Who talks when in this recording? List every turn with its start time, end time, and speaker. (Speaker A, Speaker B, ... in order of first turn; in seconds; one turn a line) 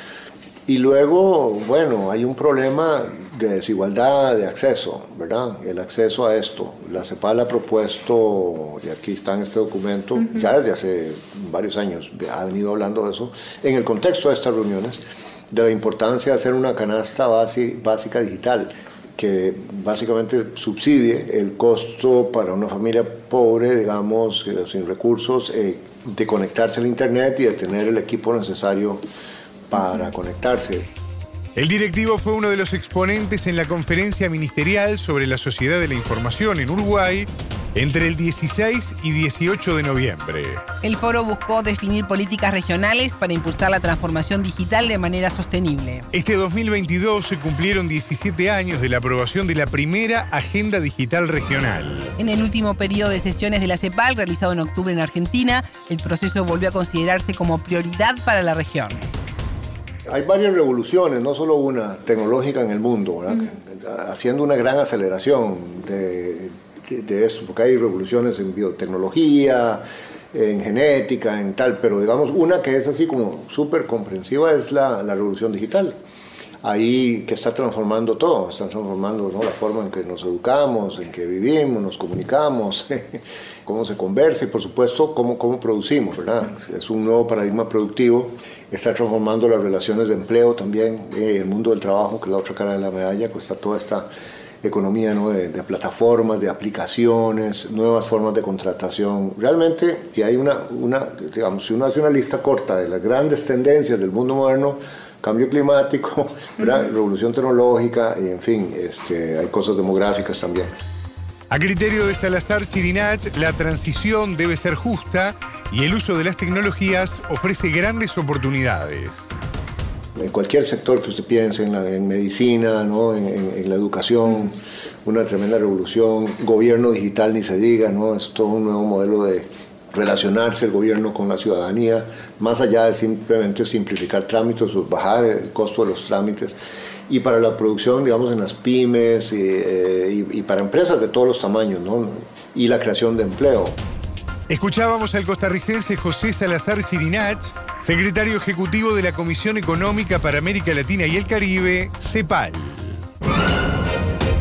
Speaker A: 0.7-29.0
Speaker A: 29.7-30.9
Speaker B: 31.6-40.6
Speaker C: 40.8-46.1
Speaker B: 46.1-52.1
Speaker C: 52.2-59.0
Speaker A: 60.1-76.0
Speaker A: 76.6-94.1
Speaker A: 94.6-110.7
Speaker B: 111.5-119.3
Speaker A: 120.2-136.6
Speaker A: 137.1-143.8
Speaker B: 144.5-153.1